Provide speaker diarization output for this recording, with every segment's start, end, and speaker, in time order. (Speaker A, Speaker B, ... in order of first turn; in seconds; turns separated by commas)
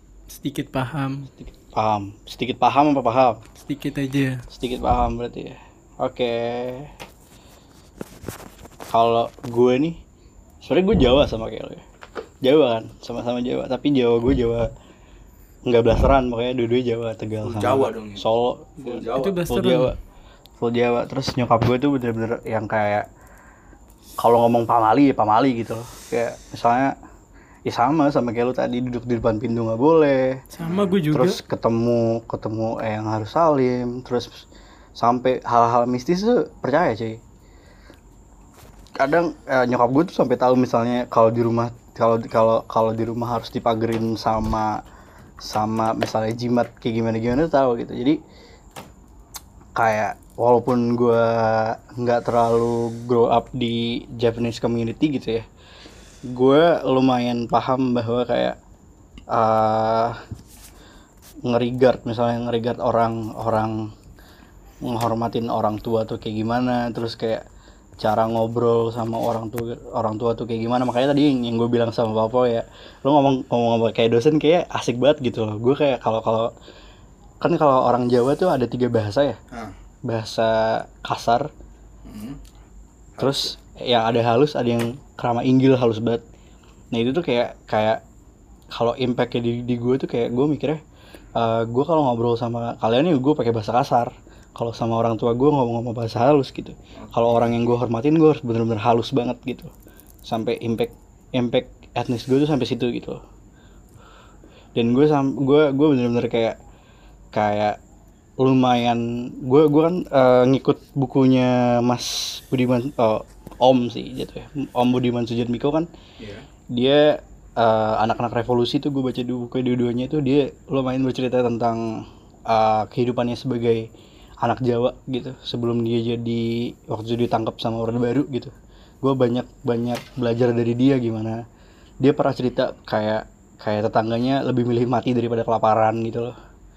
Speaker A: 0.3-1.3, Speaker B: 1.4-3.4, Speaker A: 3.6-4.4, Speaker B: 4.5-6.9, Speaker B: 8.9-10.0, Speaker B: 10.6-11.8, Speaker B: 12.4-14.7, Speaker B: 15.7-18.9, Speaker C: 17.4-18.2, Speaker C: 18.8-19.5, Speaker A: 19.1-19.9, Speaker B: 19.5-19.9, Speaker B: 20.6-23.1, Speaker B: 24.2-26.9, Speaker B: 27.6-30.4, Speaker A: 30.5-31.4, Speaker C: 30.6-30.9, Speaker B: 31.1-34.4, Speaker B: 35.0-37.2, Speaker B: 39.0-44.8, Speaker B: 45.4-48.2, Speaker B: 49.8-55.4, Speaker B: 56.3-58.6, Speaker B: 59.3-60.2, Speaker B: 61.4-63.9, Speaker B: 64.8-67.4, Speaker B: 68.0-76.5, Speaker B: 77.4-79.4, Speaker B: 80.0-81.5, Speaker C: 82.0-82.4, Speaker C: 83.2-83.5, Speaker B: 83.2-86.2, Speaker B: 86.9-88.0, Speaker B: 88.7-90.8, Speaker B: 91.3-99.7, Speaker C: 97.0-97.5, Speaker B: 100.2-103.2, Speaker B: 104.7-106.6, Speaker B: 107.3-107.8, Speaker B: 108.4-115.9, Speaker C: 116.2-116.4, Speaker B: 116.7-123.9, Speaker B: 124.4-131.4, Speaker B: 132.0-136.3